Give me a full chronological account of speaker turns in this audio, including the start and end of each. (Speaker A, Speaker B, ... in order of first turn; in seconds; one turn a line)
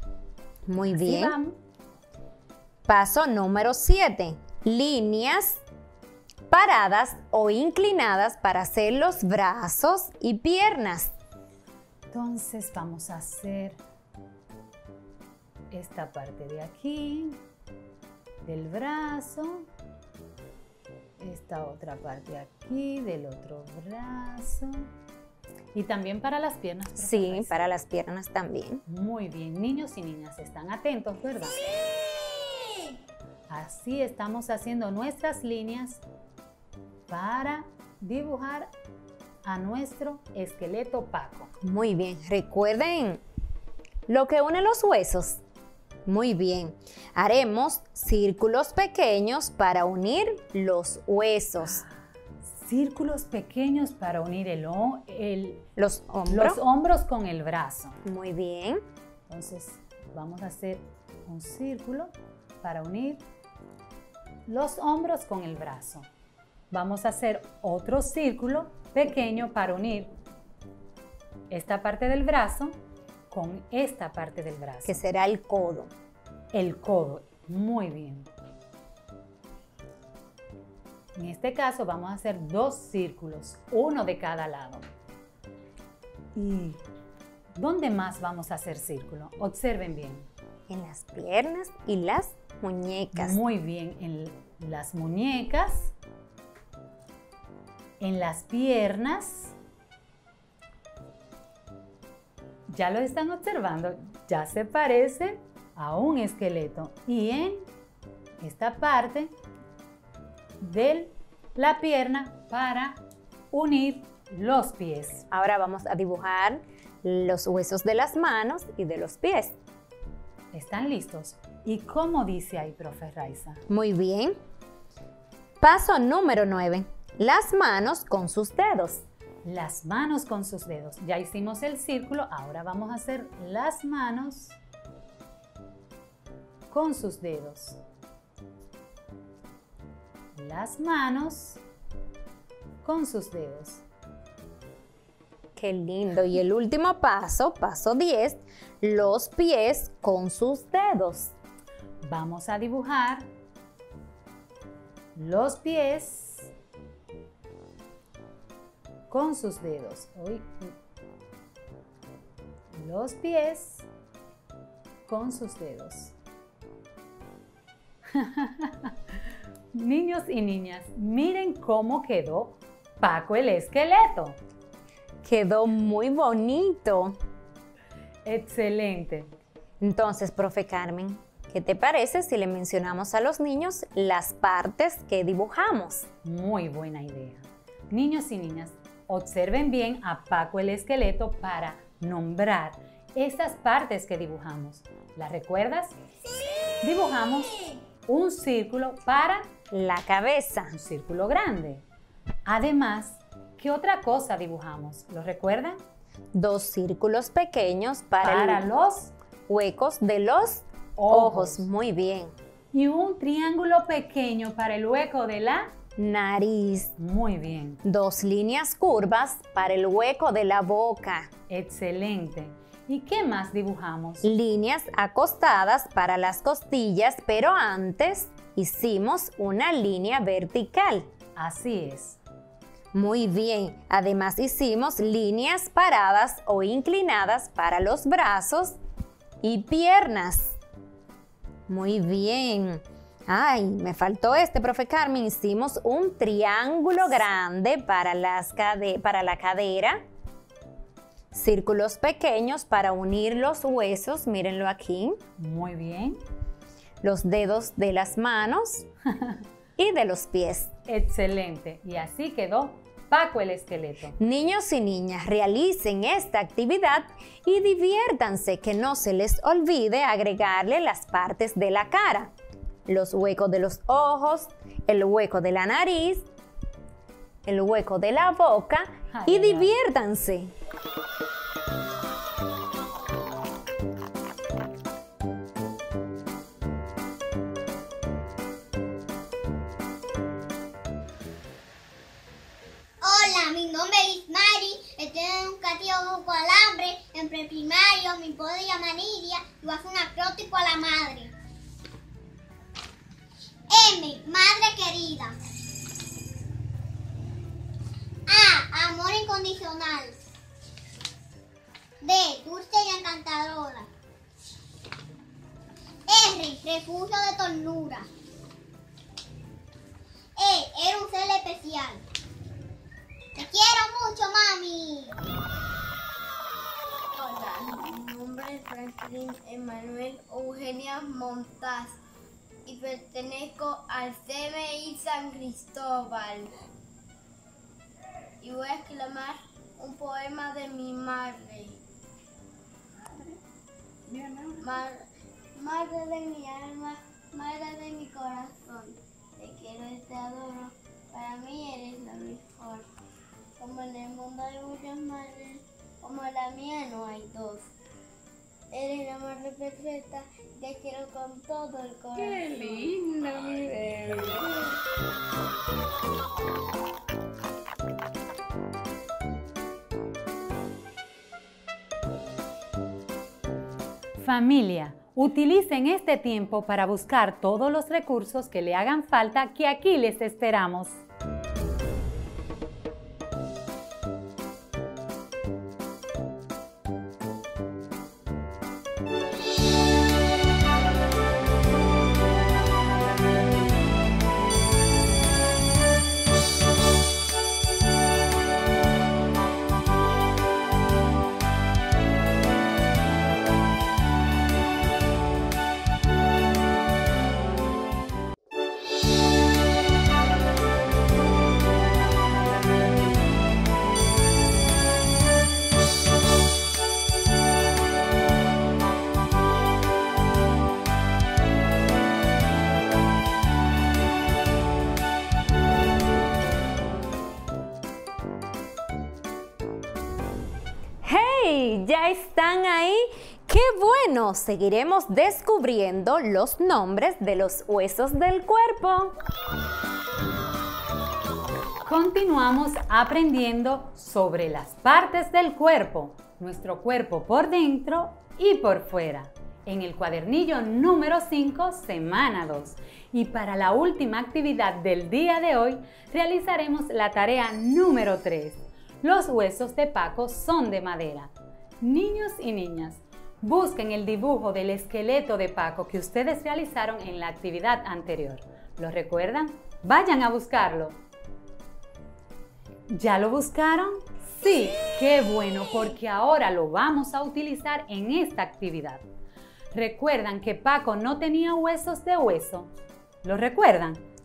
Speaker A: 0.7-1.4
Speaker B: 0.8-1.6
Speaker A: 2.9-5.6
Speaker A: 6.5-11.1
Speaker B: 12.1-13.8
Speaker B: 15.7-17.4
Speaker B: 18.4-19.7
Speaker B: 21.2-24.9
Speaker B: 25.7-27.7
Speaker A: 27.0-28.8
Speaker B: 28.9-31.6
Speaker B: 33.5-36.0
Speaker B: 37.1-38.7
Speaker B: 39.4-41.5
Speaker A: 41.6-43.2
Speaker A: 44.1-45.4
Speaker A: 46.1-51.8
Speaker B: 51.6-55.6
Speaker A: 55.8-56.6
Speaker B: 56.3-58.0
Speaker A: 58.0-58.8
Speaker B: 59.3-63.2
Speaker B: 64.5-66.1
Speaker B: 66.7-70.1
Speaker B: 71.5-72.8
Speaker B: 73.3-75.0
Speaker A: 74.8-75.9
Speaker B: 76.5-78.3
Speaker B: 81.2-84.8
Speaker B: 86.4-86.8
Speaker B: 87.6-90.3
Speaker A: 90.7-93.4
Speaker B: 93.1-95.9
Speaker B: 98.0-99.5
Speaker B: 102.7-107.7
Speaker B: 108.4-109.3
Speaker B: 110.6-113.0
Speaker B: 113.5-115.3
Speaker A: 115.3-119.6
Speaker B: 120.5-123.6
Speaker A: 123.7-124.4
Speaker A: 125.6-129.0
Speaker B: 129.4-134.6
Speaker B: 136.7-137.8
Speaker B: 140.4-141.6
Speaker B: 142.8-143.8
Speaker A: 145.6-151.3
Speaker B: 152.0-153.3
Speaker B: 155.2-156.5
Speaker B: 159.1-160.7
Speaker B: 162.7-163.9
Speaker B: 165.1-166.1
Speaker B: 168.1-168.9
Speaker B: 169.7-174.4
Speaker A: 175.2-177.2
Speaker B: 178.2-179.3
Speaker A: 179.8-186.1
Speaker B: 186.2-196.0
Speaker B: 196.8-197.6
Speaker B: 198.1-199.5
Speaker A: 199.7-200.7
Speaker B: 200.7-201.8
Speaker B: 202.5-205.8
Speaker A: 206.3-208.7
Speaker B: 208.2-209.1
Speaker A: 209.5-212.3
Speaker B: 211.0-211.7
Speaker B: 212.7-215.7
Speaker A: 216.0-216.9
Speaker B: 217.0-217.8
Speaker A: 217.8-221.3
Speaker B: 221.5-224.2
Speaker A: 224.2-231.1
Speaker B: 231.4-232.2
Speaker A: 232.9-238.8
Speaker A: 239.4-240.6
Speaker A: 241.7-250.0
Speaker A: 251.3-255.2
Speaker B: 255.4-256.2
Speaker A: 257.0-258.9
Speaker A: 259.8-260.7
Speaker B: 260.9-264.1
Speaker A: 264.2-272.3
Speaker A: 272.9-276.3
Speaker A: 277.4-280.5
Speaker B: 279.1-279.7
Speaker C: 293.0-301.3
Speaker C: 303.7-305.4
Speaker C: 308.3-310.2
Speaker C: 312.0-313.9
Speaker C: 316.1-318.1
Speaker C: 320.4-322.0
Speaker C: 323.4-325.1
Speaker D: 327.2-332.0
Speaker D: 332.7-336.5
Speaker D: 338.4-341.8
Speaker D: 344.1-345.0
Speaker D: 345.6-352.9
Speaker D: 353.6-357.7
Speaker D: 358.7-364.7
Speaker B: 374.2-381.0
Speaker A: 431.0-439.1
Speaker B: 441.9-471.0
Speaker B: 472.9-479.0
Speaker B: 479.7-482.7
Speaker B: 483.2-484.1